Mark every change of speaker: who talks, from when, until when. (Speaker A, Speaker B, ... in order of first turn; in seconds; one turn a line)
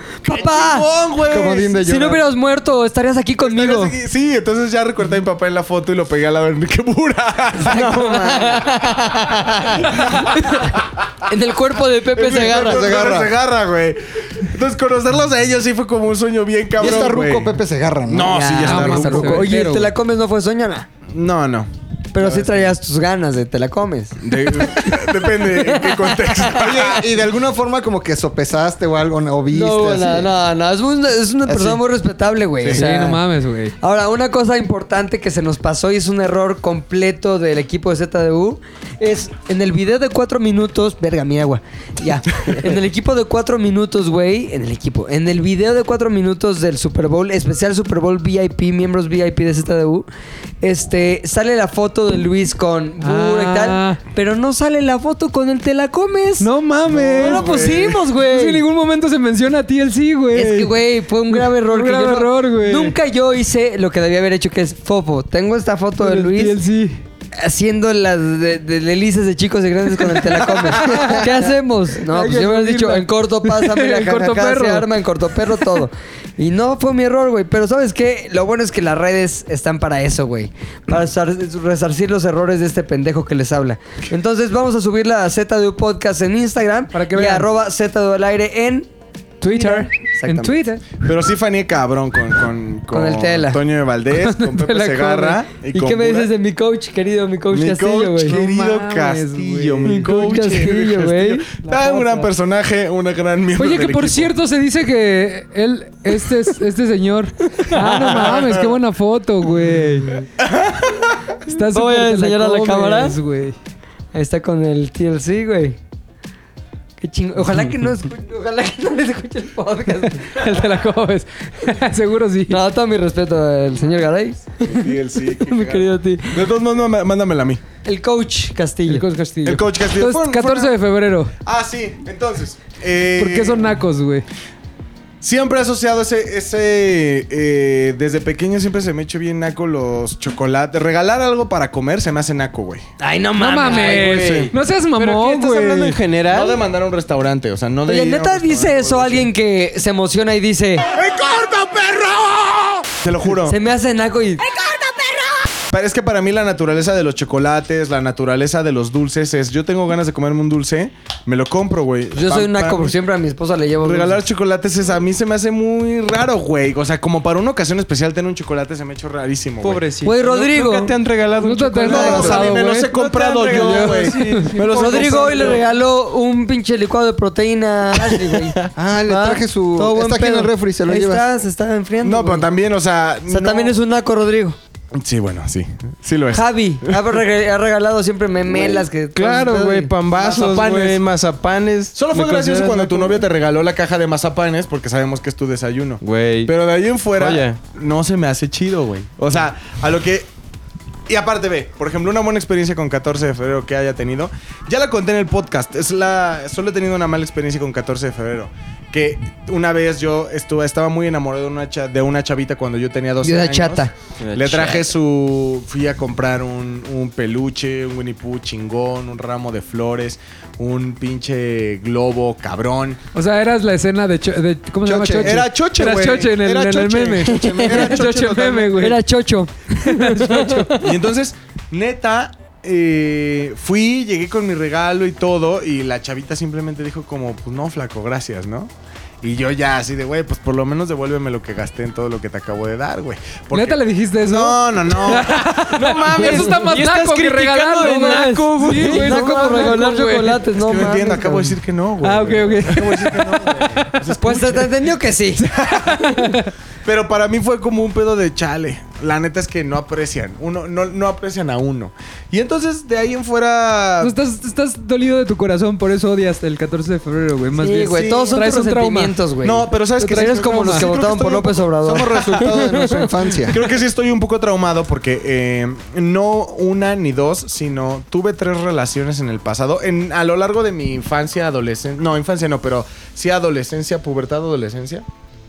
Speaker A: 0.2-4.0
Speaker B: 0.3-1.8
Speaker C: 1.2-2.2
Speaker B: 3.4-10.7
Speaker A: 7.7-10.7
Speaker A: 11.3-12.9
Speaker B: 12.1-17.6
Speaker C: 12.3-13.3
Speaker C: 16.8-18.7
Speaker B: 18.1-19.4
Speaker A: 18.2-20.9
Speaker D: 18.7-19.9
Speaker B: 21.1-22.7
Speaker A: 22.1-26.2
Speaker B: 24.2-27.0
Speaker C: 26.5-30.3
Speaker A: 29.5-33.2
Speaker C: 31.5-31.8
Speaker D: 32.7-33.8
Speaker A: 33.8-50.1
Speaker A: 50.6-56.5
Speaker D: 53.0-54.0
Speaker D: 56.4-57.6
Speaker B: 56.9-58.0
Speaker A: 57.1-58.6
Speaker D: 58.2-60.7
Speaker A: 60.3-66.6
Speaker D: 61.3-63.0
Speaker D: 66.0-67.0
Speaker A: 67.3-88.9
Speaker D: 70.1-74.9
Speaker D: 86.9-87.5
Speaker D: 89.4-90.8
Speaker A: 89.5-90.6
Speaker B: 91.0-96.3
Speaker A: 92.9-93.6
Speaker D: 94.2-95.4
Speaker A: 95.7-98.4
Speaker B: 97.5-104.3
Speaker D: 98.2-102.3
Speaker A: 100.0-101.5
Speaker D: 103.6-110.2
Speaker B: 107.9-108.7
Speaker B: 110.4-111.2
Speaker D: 111.5-113.6
Speaker A: 111.7-113.2
Speaker A: 114.1-115.8
Speaker A: 117.0-120.4
Speaker D: 120.3-122.6
Speaker A: 122.5-126.4
Speaker B: 124.6-127.6
Speaker A: 127.8-129.0
Speaker D: 128.9-131.3
Speaker B: 129.4-130.7
Speaker B: 131.4-133.8
Speaker D: 133.2-134.3
Speaker B: 135.2-142.8
Speaker A: 143.0-144.0
Speaker D: 143.4-146.0
Speaker E: 143.7-146.6
Speaker B: 143.7-144.5
Speaker B: 146.3-149.3
Speaker A: 147.9-150.9
Speaker B: 150.9-153.6
Speaker A: 153.4-154.4
Speaker B: 155.7-162.9
Speaker A: 162.1-164.2
Speaker B: 163.8-169.8
Speaker E: 169.6-175.6
Speaker A: 170.0-170.9
Speaker D: 171.4-172.9
Speaker B: 171.9-175.6
Speaker A: 171.9-172.4
Speaker D: 173.4-175.6
Speaker A: 174.7-182.5
Speaker C: 178.8-181.3
Speaker B: 182.0-183.8
Speaker A: 183.3-184.6
Speaker B: 184.9-187.0
Speaker A: 186.3-189.9
Speaker E: 188.6-193.3
Speaker B: 190.1-191.0
Speaker B: 191.9-200.3
Speaker E: 196.0-196.5
Speaker E: 197.2-197.6
Speaker B: 201.1-223.0
Speaker A: 213.2-213.9
Speaker E: 214.2-214.9
Speaker D: 223.2-229.1
Speaker C: 224.8-225.4
Speaker B: 225.2-228.9
Speaker C: 227.3-228.3
Speaker A: 227.5-227.9
Speaker A: 228.8-230.9
Speaker D: 229.8-230.7
Speaker B: 230.8-238.7
Speaker B: 239.2-246.5
Speaker D: 243.5-250.5
Speaker E: 245.7-249.7
Speaker A: 247.8-251.6
Speaker B: 250.5-254.7
Speaker D: 252.0-253.9
Speaker A: 254.2-255.4
Speaker B: 255.4-256.3
Speaker D: 256.1-256.5
Speaker B: 256.9-264.1
Speaker D: 264.0-269.2
Speaker A: 267.5-273.1
Speaker B: 268.0-268.4
Speaker B: 269.4-272.9
Speaker D: 270.0-270.9
Speaker C: 271.9-273.6
Speaker B: 273.5-285.1